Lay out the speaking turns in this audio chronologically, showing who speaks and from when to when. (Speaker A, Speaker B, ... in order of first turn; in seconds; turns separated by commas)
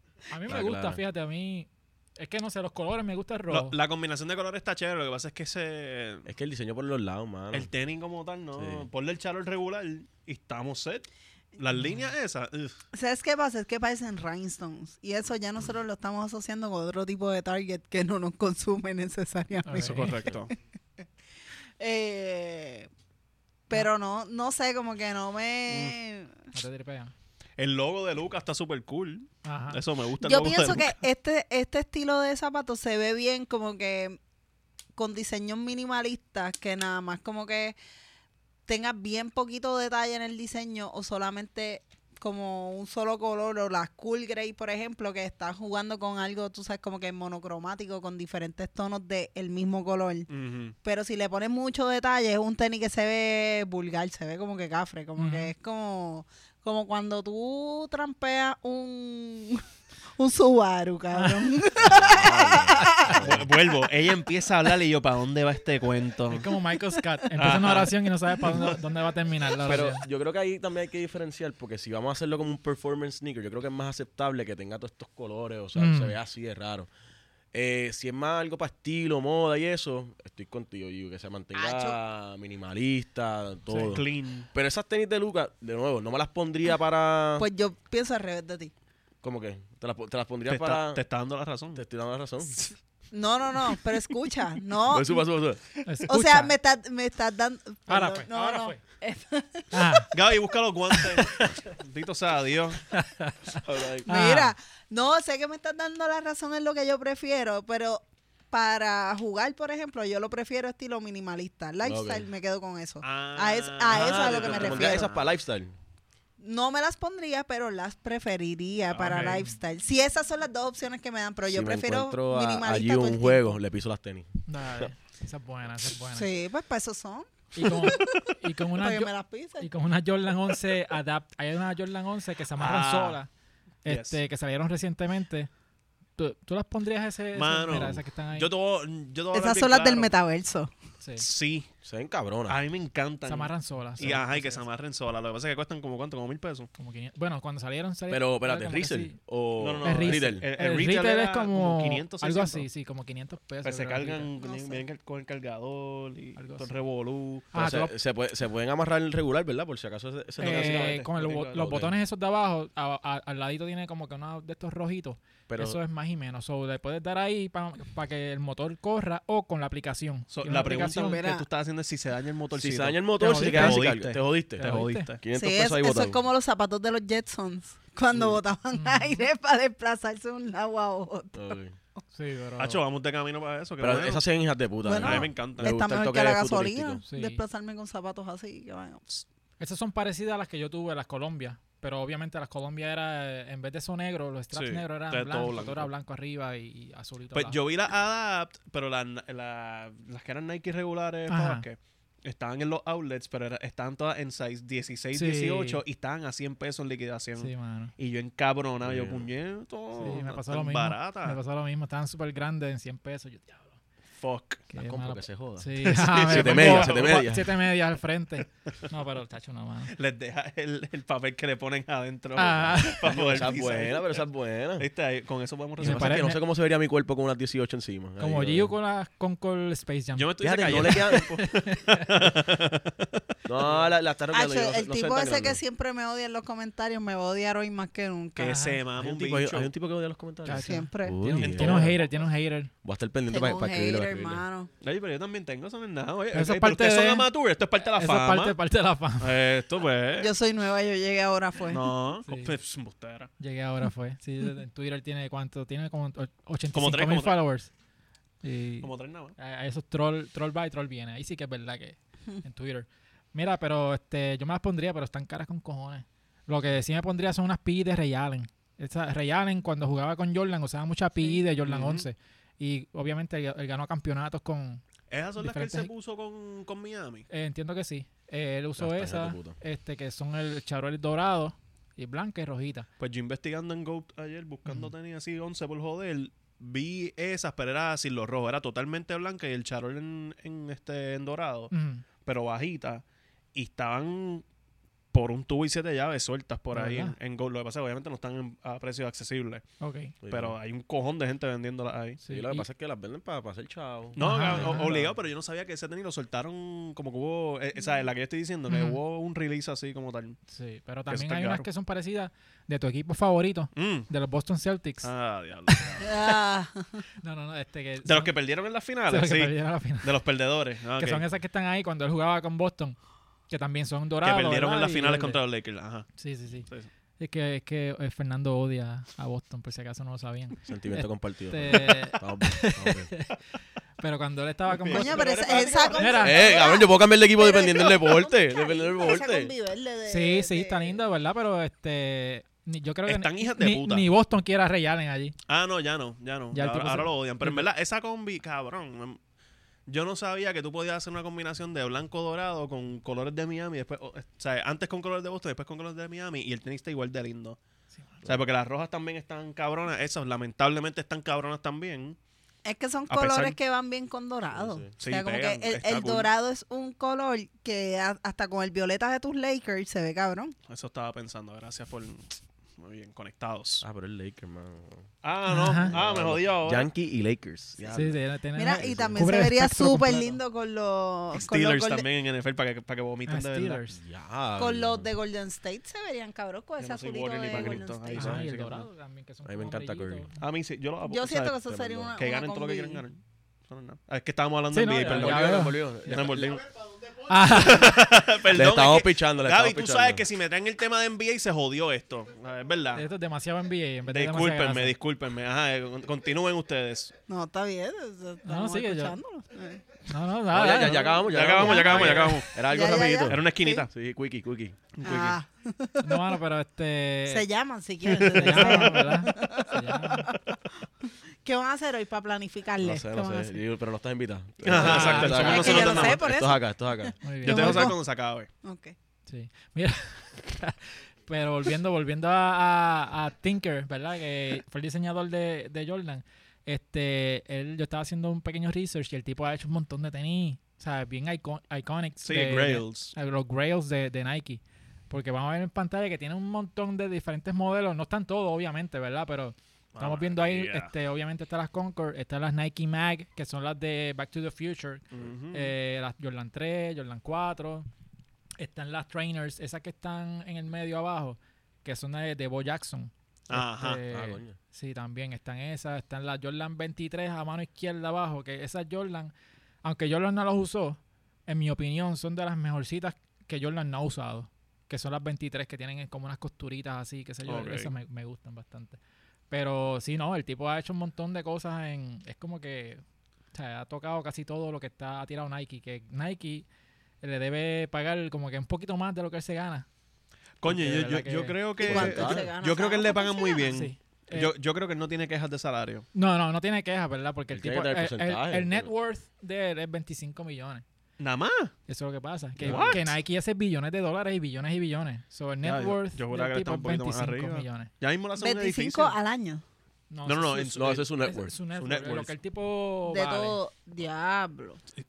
Speaker A: 0.3-3.8, Speaker B: 0.5-1.0, Speaker C: 3.5-6.3, Speaker B: 6.3-7.7, Speaker C: 7.5-12.7, Speaker B: 8.6-8.9, Speaker A: 11.7-12.1, Speaker D: 12.9-20.3, Speaker A: 19.6-20.2, Speaker C: 19.7-20.5, Speaker D: 21.8-22.9, Speaker D: 23.7-26.3, Speaker C: 25.7-26.0, Speaker A: 26.5-27.1, Speaker C: 27.6-31.0, Speaker A: 29.4-29.8, Speaker D: 30.2-34.2, Speaker D: 35.0-37.8, Speaker D: 38.7-50.3, Speaker C: 50.3-50.8, Speaker D: 50.8-59.6, Speaker A: 55.2-55.5, Speaker D: 60.2-63.3, Speaker A: 61.1-61.5, Speaker B: 61.8-63.5, Speaker C: 63.1-66.5, Speaker A: 66.3-70.0, Speaker C: 67.4-68.7, Speaker B: 69.7-76.9, Speaker A: 75.8-76.2, Speaker B: 77.5-87.5, Speaker D: 81.5-82.0, Speaker A: 83.7-84.0, Speaker C: 83.8-84.5, Speaker D: 87.4-88.7, Speaker B: 89.2-91.0, Speaker C: 90.5-91.8, Speaker B: 91.8-92.6, Speaker D: 93.1-95.2, Speaker B: 94.9-95.6, Speaker A: 95.8-96.5, Speaker D: 96.1-100.0, Speaker A: 97.9-98.8, Speaker A: 99.7-100.1, Speaker C: 100.1-102.9, Speaker A: 101.0-101.5, Speaker A: 102.9-104.5, Speaker B: 103.6-104.1, Speaker D: 104.1-115.1, Speaker B: 111.8-112.3, Speaker C: 113.0-115.3, Speaker B: 113.9-115.7, Speaker D: 116.4-123.6, Speaker C: 118.9-119.4, Speaker A: 119.0-119.5, Speaker B: 121.5-124.9, Speaker A: 124.5-126.3, Speaker D: 126.1-129.7, Speaker A: 127.5-133.3, Speaker C: 132.6-133.2, Speaker A: 133.8-135.5, Speaker C: 133.9-134.2, Speaker A: 136.2-138.5, Speaker C: 137.3-140.1, Speaker D: 139.3-140.7, Speaker A: 141.0-141.3, Speaker C: 141.2-141.7, Speaker B: 141.8-142.6, Speaker C: 142.5-146.7, Speaker A: 143.3-144.6, Speaker A: 146.8-149.2, Speaker B: 148.1-150.5, Speaker C: 149.6-152.7, Speaker A: 149.8-154.3, Speaker C: 153.6-157.5, Speaker D: 154.4-154.8, Speaker A: 156.4-156.7, Speaker A: 157.5-157.9, Speaker B: 157.6-161.0, Speaker C: 160.4-161.7, Speaker A: 160.4-171.2, Speaker B: 161.6-161.9, Speaker B: 165.5-165.8, Speaker C: 170.3-175.2, Speaker D: 170.6-171.5, Speaker B: 172.6-176.2, Speaker A: 173.2-173.9, Speaker A: 174.6-175.1, Speaker D: 175.3-181.6, Speaker B: 178.1-178.4, Speaker A: 178.7-179.3, Speaker B: 181.3-181.8, Speaker A: 182.1-182.8, Speaker C: 182.6-184.2, Speaker B: 183.8-187.0, Speaker D: 184.8-189.2, Speaker C: 184.9-185.7, Speaker A: 187.1-187.4, Speaker A: 189.6-197.6, Speaker C: 194.5-195.9, Speaker C: 197.3-211.4, Speaker A: 201.3-201.7, Speaker A: 205.1-205.8, Speaker A: 207.4-207.9, Speaker B: 208.8-209.3, Speaker A: 210.0-213.8, Speaker C: 214.2-214.6, Speaker A: 214.7-219.9, Speaker B: 214.8-217.5, Speaker C: 216.0-217.3, Speaker C: 219.9-224.2, Speaker A: 222.4-223.0, Speaker B: 222.5-224.9, Speaker C: 224.8-226.2, Speaker B: 225.8-228.7, Speaker A: 225.8-226.4, Speaker A: 228.2-232.1, Speaker C: 230.2-233.7, Speaker B: 230.4-231.3, Speaker B: 233.5-235.6, Speaker D: 234.3-238.6, Speaker C: 238.4-239.7, Speaker A: 238.4-238.8, Speaker B: 239.0-242.0, Speaker A: 240.4-242.7, Speaker D: 240.5-241.2, Speaker C: 241.3-242.2, Speaker B: 242.8-244.4, Speaker D: 243.3-244.7, Speaker C: 244.8-248.6, Speaker A: 246.3-247.3, Speaker A: 247.9-249.3, Speaker C: 249.2-250.3, Speaker D: 250.2-251.9, Speaker C: 251.7-253.3, Speaker A: 252.3-252.5, Speaker A: 253.4-257.7, Speaker C: 256.7-257.4, Speaker A: 258.4-274.8, Speaker C: 258.8-259.4, Speaker C: 271.6-272.1, Speaker C: 275.1-277.3, Speaker A: 275.4-275.9, Speaker A: 277.3-282.9, Speaker B: 278.8-279.6, Speaker C: 283.0-291.7, Speaker A: 284.7-284.9, Speaker A: 291.7-292.0, Speaker C: 292.2-293.0, Speaker C: 293.6-294.4, Speaker C: 295.1-299.6, Speaker A: 296.7-297.2, Speaker A: 299.8-300.1, Speaker B: 300.2-300.6, Speaker C: 300.3-302.2, Speaker A: 302.2-302.7, Speaker B: 302.3-305.0, Speaker C: 304.2-310.4, Speaker A: 304.2-305.1, Speaker A: 308.7-309.0, Speaker A: 310.5-315.1, Speaker C: 311.1-311.7, Speaker C: 313.8-314.1, Speaker C: 315.0-316.2, Speaker A: 315.7-316.3, Speaker D: 316.0-317.0, Speaker A: 317.2-318.3, Speaker C: 318.1-321.2, Speaker A: 319.1-320.1, Speaker A: 321.0-323.0, Speaker A: 323.5-325.4, Speaker C: 324.2-326.1, Speaker A: 326.2-326.7, Speaker A: 327.2-333.4, Speaker B: 330.7-333.1, Speaker A: 334.0-335.3, Speaker C: 334.8-336.3, Speaker D: 334.9-341.0, Speaker A: 335.9-336.5, Speaker B: 336.2-339.5, Speaker A: 340.1-345.4, Speaker C: 343.1-344.1, Speaker C: 345.5-349.2, Speaker A: 346.5-347.7, Speaker C: 349.9-357.6, Speaker A: 358.0-358.2, Speaker C: 358.2-362.2, Speaker D: 362.6-370.6, Speaker C: 363.1-363.6, Speaker B: 364.5-364.9, Speaker C: 365.0-366.3, Speaker C: 370.7-373.8, Speaker B: 373.8-375.1, Speaker C: 375.2-376.9, Speaker A: 375.5-375.9, Speaker B: 375.9-378.2, Speaker A: 377.9-380.4, Speaker D: 378.6-382.1, Speaker B: 378.8-379.3, Speaker C: 381.3-383.8, Speaker A: 383.3-384.0, Speaker B: 383.9-385.1, Speaker D: 384.6-388.4, Speaker C: 386.8-388.9, Speaker A: 388.1-390.4, Speaker B: 389.4-390.3, Speaker C: 390.4-391.6, Speaker D: 391.0-393.0, Speaker B: 391.7-392.1, Speaker C: 392.2-396.7, Speaker A: 394.7-396.1, Speaker B: 395.0-396.6, Speaker A: 397.2-398.0, Speaker C: 397.5-403.1, Speaker B: 398.5-400.2, Speaker A: 402.9-404.9, Speaker C: 404.1-407.1, Speaker D: 407.3-409.8, Speaker A: 408.4-409.2, Speaker A: 410.1-412.4, Speaker B: 410.5-414.8, Speaker C: 411.2-412.6, Speaker D: 411.6-413.9, Speaker C: 413.3-413.9, Speaker C: 414.9-415.4, Speaker D: 415.0-416.3, Speaker A: 416.0-417.5, Speaker D: 417.3-423.6, Speaker C: 418.0-419.0, Speaker A: 418.2-420.3, Speaker B: 422.8-427.2, Speaker C: 424.6-426.2, Speaker A: 424.7-426.0, Speaker D: 424.9-428.0, Speaker A: 427.2-427.9, Speaker C: 427.4-428.5, Speaker D: 428.6-428.9, Speaker A: 429.3-457.9, Speaker C: 442.2-443.1, Speaker C: 449.9-450.9, Speaker C: 455.1-455.7, Speaker A: 458.6-469.3, Speaker C: 463.5-464.0, Speaker B: 464.1-464.6, Speaker A: 469.8-479.0, Speaker C: 477.5-477.9, Speaker A: 479.5-483.0, Speaker A: 483.5-486.7, Speaker A: 487.2-489.9, Speaker C: 490.6-496.1, Speaker A: 490.6-491.6, Speaker D: 491.8-493.8, Speaker B: 491.8-492.5, Speaker A: 493.7-494.5, Speaker A: 496.1-500.8, Speaker B: 497.5-498.9, Speaker C: 501.2-501.7, Speaker A: 501.9-507.9, Speaker B: 502.6-503.0, Speaker C: 502.6-503.1, Speaker C: 505.6-509.1, Speaker D: 508.4-509.6, Speaker A: 510.1-513.6, Speaker C: 510.2-511.1, Speaker B: 510.8-511.6, Speaker C: 511.8-512.3, Speaker D: 513.0-514.8